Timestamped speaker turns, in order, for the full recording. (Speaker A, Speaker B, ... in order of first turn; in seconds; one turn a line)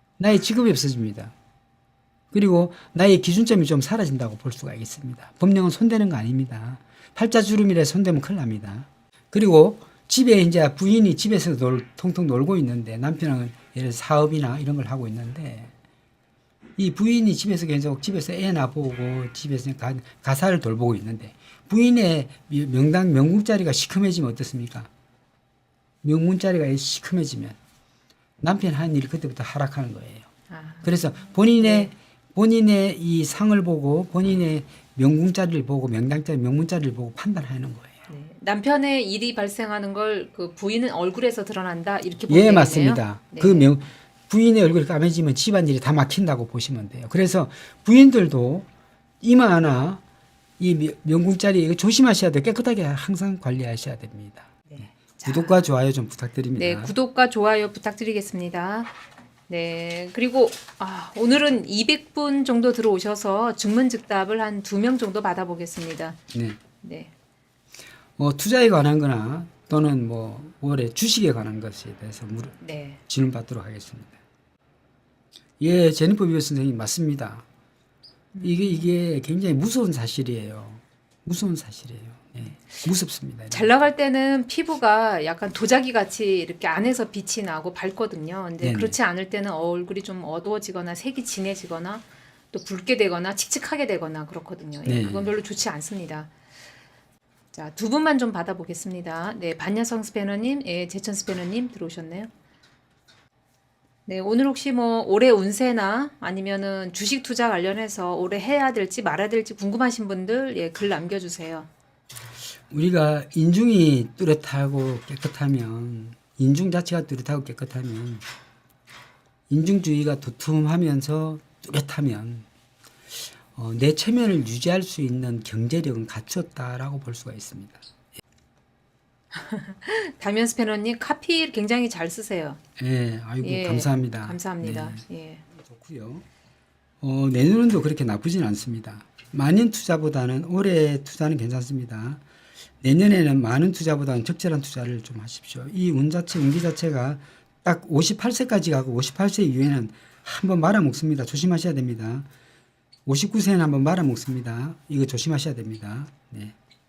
Speaker A: 0.2-1.3
Speaker A: 2.3-15.7
Speaker A: 16.8-24.9
Speaker A: 26.0-27.6
Speaker A: 28.4-30.3
Speaker B: 30.5-31.9
Speaker A: 30.8-38.0
Speaker B: 38.1-43.7
Speaker A: 42.3-48.7
Speaker A: 49.2-50.0
Speaker A: 50.6-54.5
Speaker B: 54.7-55.7
Speaker A: 55.2-56.9
Speaker B: 56.6-58.9
Speaker B: 59.5-66.2
Speaker A: 66.3-66.6
Speaker B: 66.8-67.1
Speaker A: 68.2-72.6
Speaker B: 72.6-73.0
Speaker A: 73.1-74.2
Speaker A: 75.6-77.5
Speaker B: 78.3-78.9
Speaker A: 78.4-83.7
Speaker B: 82.5-82.8
Speaker B: 83.5-96.3
Speaker A: 88.6-89.0
Speaker A: 94.8-95.3
Speaker B: 97.5-102.3
Speaker B: 104.1-111.7
Speaker A: 112.7-118.2
Speaker A: 119.5-122.5
Speaker A: 123.5-127.8
Speaker B: 129.3-132.6
Speaker A: 132.8-135.0
Speaker B: 133.4-135.4
Speaker A: 135.5-136.2
Speaker A: 137.0-142.2
Speaker A: 142.8-152.3
Speaker A: 153.1-156.6